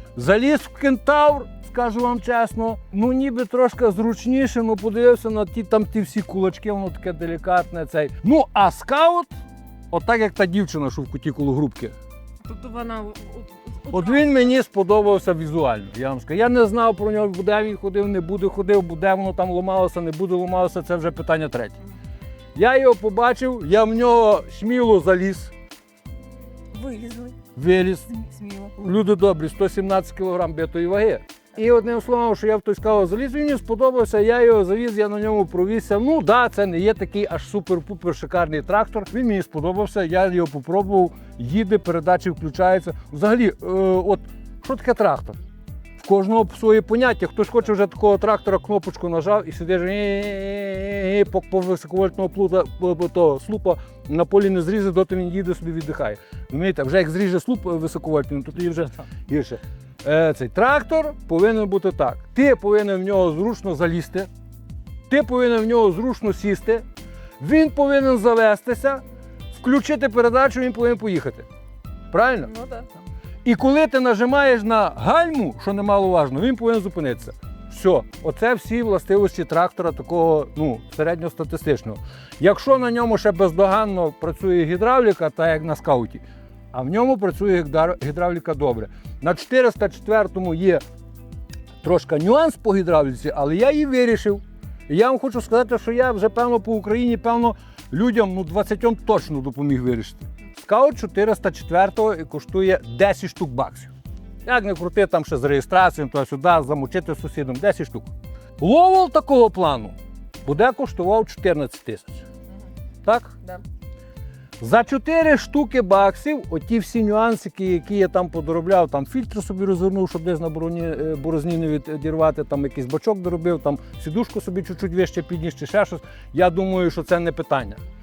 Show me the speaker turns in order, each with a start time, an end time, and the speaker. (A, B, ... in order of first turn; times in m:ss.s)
0:00.2-0:09.3 A
0:09.9-0:12.0 A
0:12.4-0:14.2 B
0:13.9-0:21.8 A
0:22.5-0:25.5 A
0:26.7-0:27.4 B
0:27.5-0:28.1 A
0:28.1-0:28.7 B
0:28.7-0:45.4 A
0:46.0-1:04.3 A
1:05.1-1:06.8 A
1:07.4-1:09.0 A
1:09.5-1:11.5 A
1:12.1-1:12.5 A
1:12.4-1:12.9 B
1:13.4-1:30.8 A
1:31.8-1:43.9 A
1:44.4-1:52.3 A
1:53.0-1:53.3 A
1:54.6-2:07.8 A